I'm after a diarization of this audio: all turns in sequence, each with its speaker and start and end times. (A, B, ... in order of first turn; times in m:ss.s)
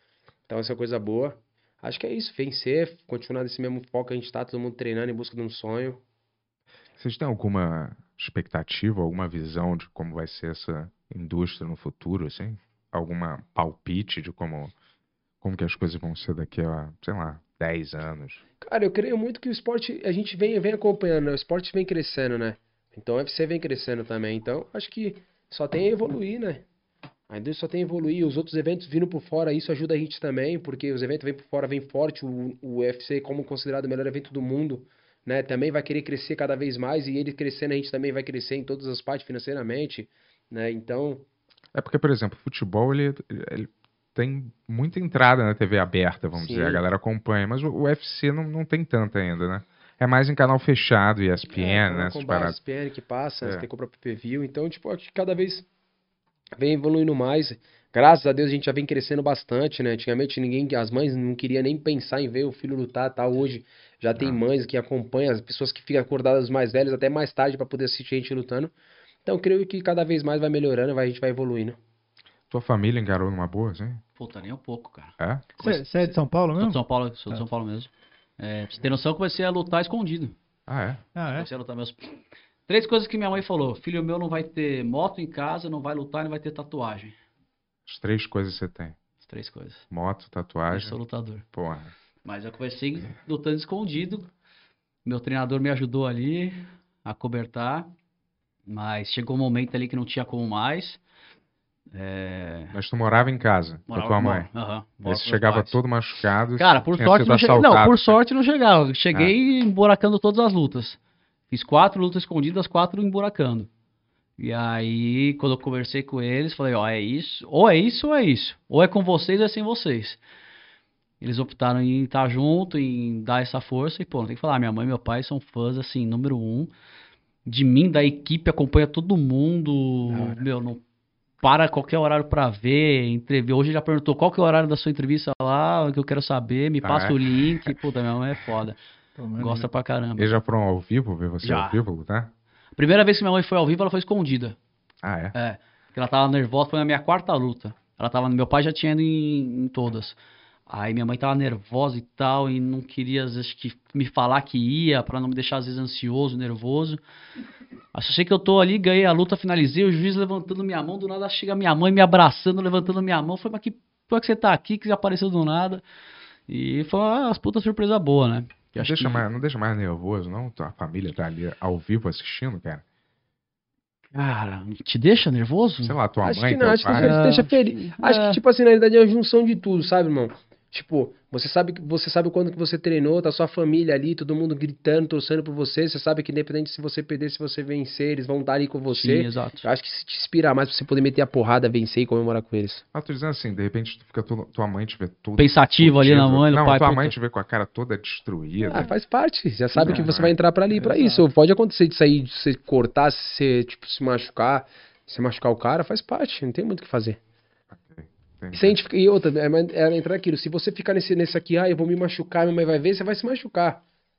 0:00.5-0:06.0 A
0:07.0-0:14.7 B
0:15.4-0:18.4 B
0:18.6-0:26.6 A
0:27.3-0:41.2 A
0:41.7-0:52.6 B
0:46.3-0:46.8 A
0:51.5-0:55.7 A
0:56.6-1:08.7 A
1:09.2-1:11.8 A
1:12.5-1:14.0 B
1:14.2-1:20.3 C
1:15.2-1:15.5 B
1:15.6-1:16.8 D
1:20.7-1:21.0 B
1:21.1-1:21.5 D
1:21.3-1:27.1 C
1:27.8-1:29.0 B
1:29.2-1:29.8 C
1:29.9-1:31.0 B
1:30.7-1:31.4 C
1:31.5-1:31.9 B
1:32.2-1:34.3 C
1:35.0-1:37.9 C
1:38.7-1:41.0 C
1:41.9-1:42.7 C
1:42.7-1:44.5 B
1:43.9-1:45.8 C
1:45.0-1:48.2 B
1:46.6-1:51.0 C
1:51.5-1:53.7 C
1:54.4-2:00.2 C
2:01.2-2:06.7 C
2:07.4-2:10.8 C
2:10.1-2:10.4 A
2:11.4-2:18.8 C
2:16.8-2:17.7 B
2:19.2-2:19.7 D
2:19.4-2:20.3 C
2:20.2-2:22.3 B
2:21.4-2:21.8 C
2:22.8-2:24.6 C
2:25.0-2:25.3 B
2:25.3-2:30.2 C
2:30.7-2:37.0 C
2:37.9-2:45.8 C
2:46.5-2:49.2 C
2:48.8-2:52.8 B
2:54.1-2:56.0 C
2:55.8-2:57.2 B
2:56.2-3:12.8 A
2:56.9-2:58.4 C
3:08.9-3:09.7 C
3:12.9-3:18.9 B
3:15.4-3:17.2 C
3:18.7-3:27.2 A
3:19.7-3:20.1 C
3:19.8-3:20.4 B
3:27.7-3:28.8 B
3:28.5-3:33.8 A